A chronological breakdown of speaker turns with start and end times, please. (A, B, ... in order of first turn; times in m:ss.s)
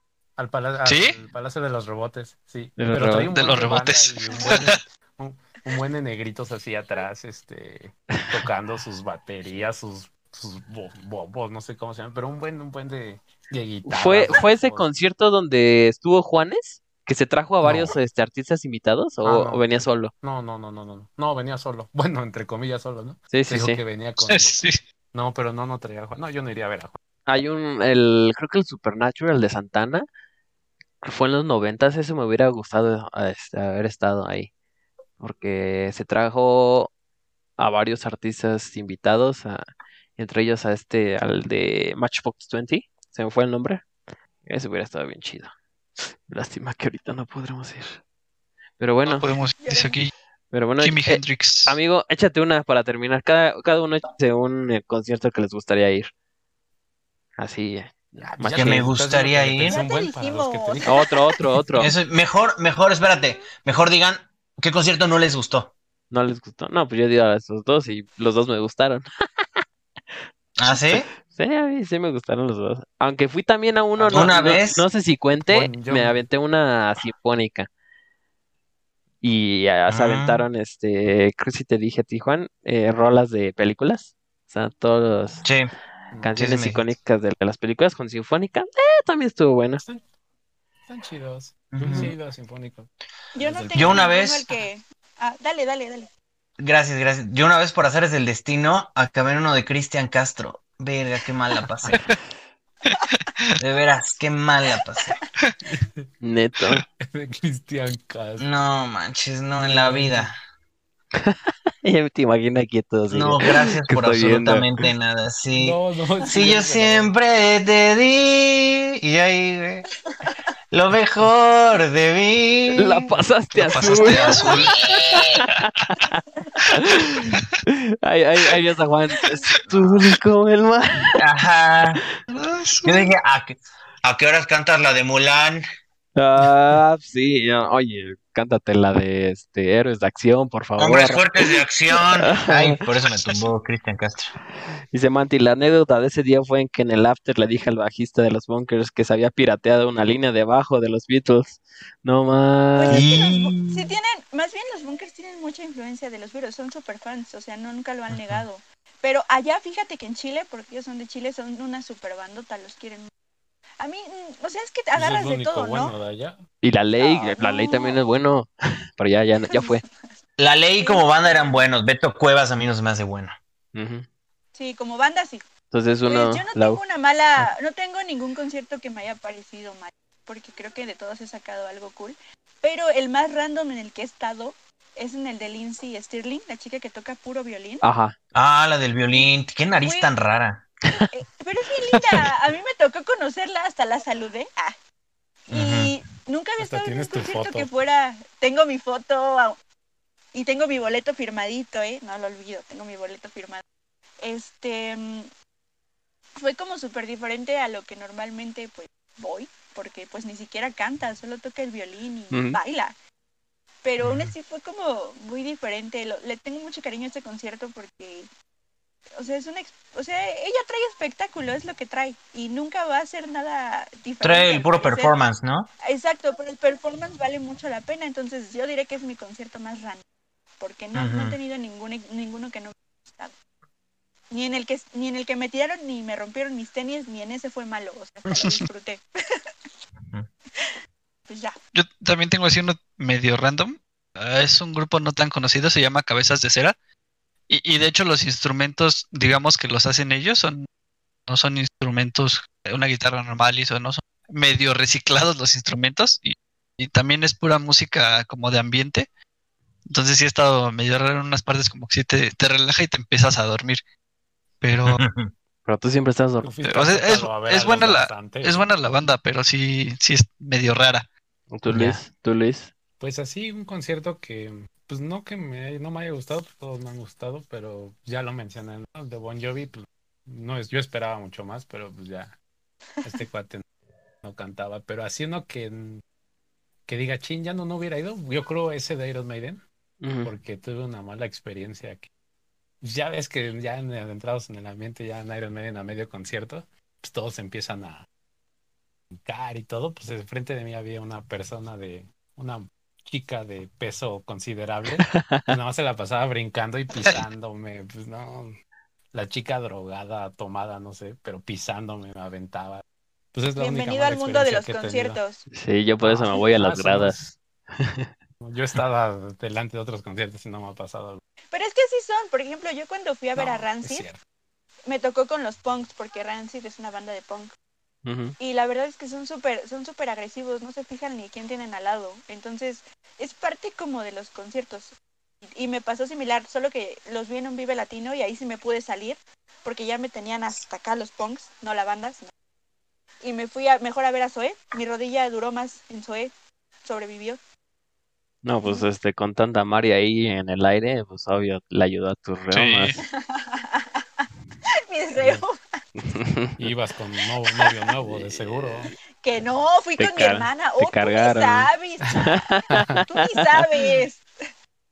0:00.4-0:14.9 A
0:00.8-0:01.2 B
0:02.8-0:03.3 C
0:03.3-0:04.8 B
0:13.8-0:20.1 C
0:17.6-0:18.0 A
0:19.2-0:19.7 A
0:20.2-0:24.6 A
0:23.3-0:23.8 C
0:24.3-0:24.8 B
0:25.1-0:27.0 A
0:27.3-0:30.1 C
0:31.0-0:34.5 C
0:35.2-0:36.9 C
0:37.6-0:39.7 C
0:40.2-0:43.9 C
0:44.5-0:48.0 C
0:48.8-0:49.3 C
0:49.0-0:50.1 B
0:49.6-0:50.0 D
0:50.5-0:56.1 C
0:50.8-0:51.8 B
0:57.4-0:58.9 C
0:58.2-1:01.1 A
0:58.5-0:59.8 E
0:59.6-1:01.4 D
1:00.8-1:01.9 C
1:01.8-1:05.7 E
1:06.1-1:09.5 C
1:10.6-1:11.1 E
1:10.7-1:17.7 C
1:14.0-1:14.7 A
1:14.1-1:14.9 E
1:15.5-1:16.2 A
1:19.2-1:25.4 C
1:19.9-1:20.5 E
1:25.4-1:25.7 E
1:26.1-1:26.4 A
1:26.2-1:29.8 C
1:26.4-1:26.9 E
1:30.9-1:34.1 A
1:31.7-1:32.1 E
1:31.9-1:32.1 C
1:33.4-1:36.1 D
1:33.7-1:34.5 E
1:36.6-1:42.0 E
1:42.8-1:43.6 B
1:43.6-1:45.2 E
1:45.7-1:46.1 A
1:46.2-1:46.8 C
1:47.0-1:48.5 A
1:48.4-1:50.4 E
1:49.6-1:50.3 A
1:51.2-1:54.7 C
1:53.1-1:59.9 E
1:55.5-1:57.1 A
2:00.7-2:03.2 E
2:02.8-2:04.6 C
2:03.6-2:04.8 B
2:04.1-2:05.2 D
2:04.3-2:05.4 E
2:05.6-2:06.2 C
2:06.7-2:11.2 C
2:11.2-2:12.0 E
2:12.3-2:13.1 B
2:12.8-2:15.6 E
2:16.2-2:22.8 C
2:20.8-2:24.3 E
2:24.9-2:33.1 C
2:32.8-2:43.1 D
2:32.9-2:33.9 E
2:43.8-2:46.0 D
2:45.0-2:46.4 A
2:46.6-2:49.8 C
2:47.0-2:48.0 D
2:49.5-2:49.9 D
2:50.4-2:53.4 E
2:50.8-2:51.6 D
2:53.7-2:54.1 C
2:54.5-2:55.4 D
2:55.7-2:56.8 C
2:56.1-3:07.9 D
3:07.8-3:08.2 C
3:08.4-3:10.6 E
3:09.8-3:10.1 D
3:11.0-3:14.8 D
3:15.5-3:19.6 D
3:15.5-3:16.0 E
3:16.6-3:17.7 A
3:20.3-3:23.6 D
3:24.2-3:25.3 D
3:26.4-3:33.0 D
3:32.3-3:32.6 C
3:33.8-3:38.3 D
3:39.2-3:45.2 D
3:44.2-3:45.7 E
3:45.8-3:50.0 D
3:50.6-3:53.4 D
3:50.9-3:51.4 E
3:54.3-3:59.4 D
4:01.3-4:01.5 D
4:01.7-4:06.8 B
4:07.5-4:10.7 B
4:11.3-4:19.1 B
4:19.9-4:23.8 B
4:24.6-4:25.0 B
4:24.9-4:25.3 E
4:25.6-4:26.5 C
4:26.4-4:29.0 A
4:26.6-4:31.1 B
4:31.5-4:32.7 C
4:31.7-4:32.0 E
4:33.0-4:42.4 A
4:43.0-4:43.6 A
4:44.2-4:46.0 A
4:46.9-4:49.6 A
4:50.0-4:50.3 C
4:50.2-4:52.1 A
4:52.8-4:58.1 A
4:59.2-5:08.6 A
5:05.1-5:05.5 C
5:09.1-5:15.2 A
5:13.6-5:15.5 D
5:15.5-5:17.2 C
5:16.0-5:17.4 A
5:17.8-5:18.1 C
5:18.4-5:21.2 A
5:21.5-5:24.1 D
5:23.4-5:24.2 A
5:24.9-5:27.5 D
5:28.0-5:28.4 C
5:28.4-5:35.0 D
5:35.5-5:42.3 D
5:43.2-5:46.3 D
5:46.8-5:47.4 D
5:48.4-5:52.9 C
5:48.6-5:48.9 D
5:52.5-5:53.0 B
5:53.0-5:54.3 D
5:54.9-5:55.6 D
5:55.1-5:55.4 A
5:56.1-5:56.6 C
5:56.6-5:59.0 A
5:58.1-5:58.8 C
5:59.2-6:04.3 D
6:00.0-6:04.0 C
6:02.7-6:03.0 A